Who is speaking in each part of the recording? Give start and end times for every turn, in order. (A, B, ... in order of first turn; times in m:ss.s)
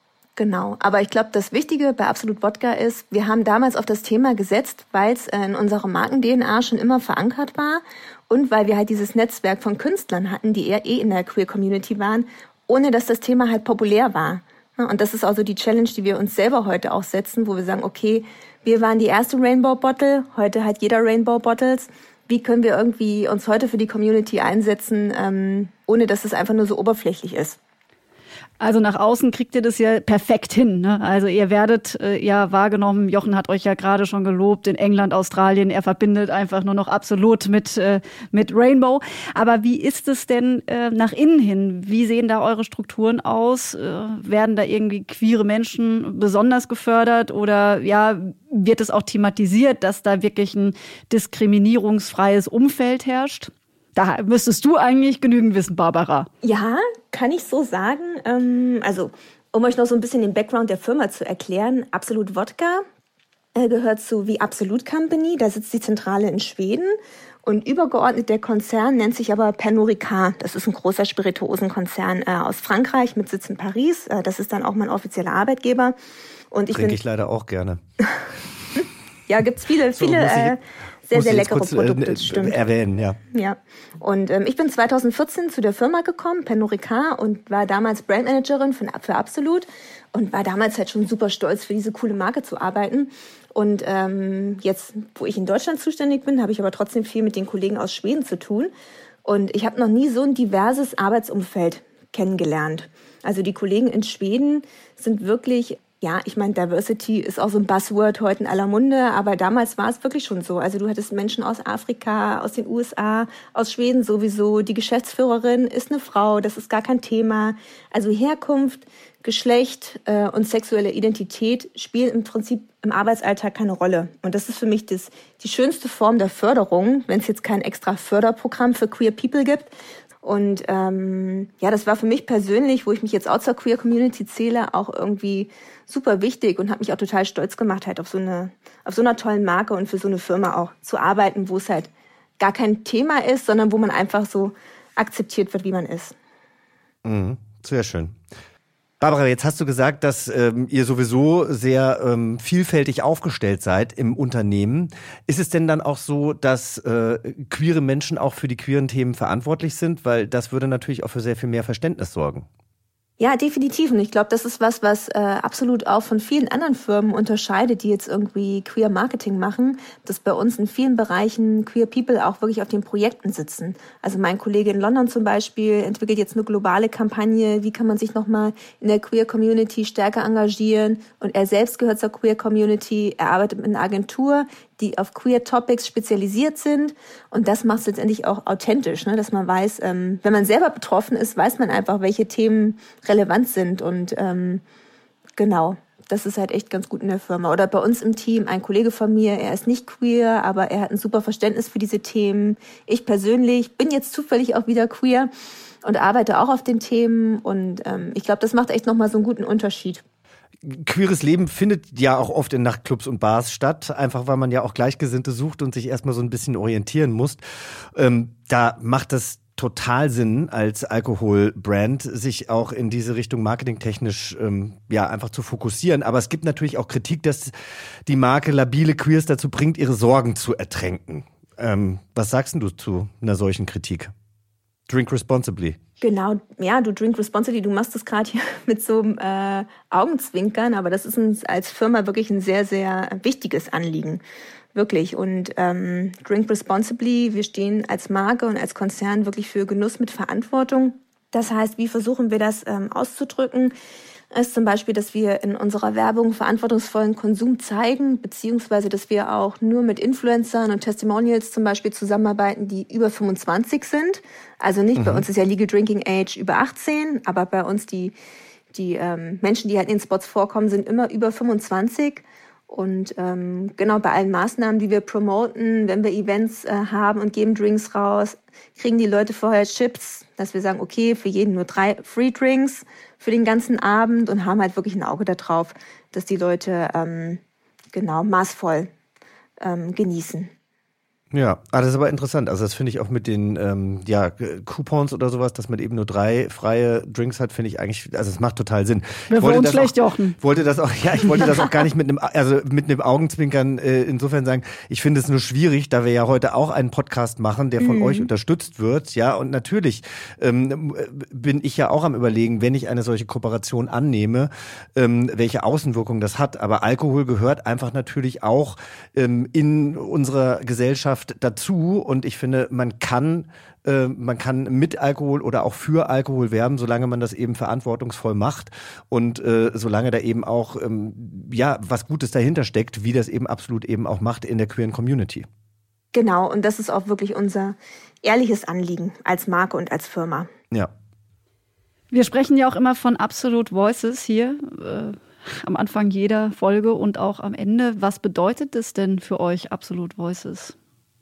0:00.4-0:27.6 A
0:28.6-0:56.3 B
0:56.4-1:02.8 A
1:03.5-1:16.0 A
1:16.5-1:17.0 A
1:16.7-1:17.8 C
1:18.8-1:22.6 A
1:19.9-1:20.6 C
1:21.1-1:23.2 C
1:23.3-1:38.7 A
1:39.2-2:09.7 A
2:10.2-2:26.1 A
2:27.0-2:28.2 C
2:29.0-2:42.5 C
2:43.2-3:14.6 A
3:15.4-3:25.3 A
3:25.8-3:30.0 A
3:30.6-3:37.4 C
3:37.9-3:47.5 C
3:48.0-3:54.1 C
3:54.9-3:55.8 C
3:56.0-4:04.2 A
4:04.7-4:13.7 A
4:14.3-4:28.2 A
4:25.0-4:25.2 C
4:28.7-4:47.4 A
4:47.9-4:48.9 A
4:49.6-4:50.5 A
4:51.3-5:35.5 C
4:59.3-5:00.4 B
5:07.8-5:08.3 A
5:36.1-5:40.5 A
5:42.1-5:50.7 B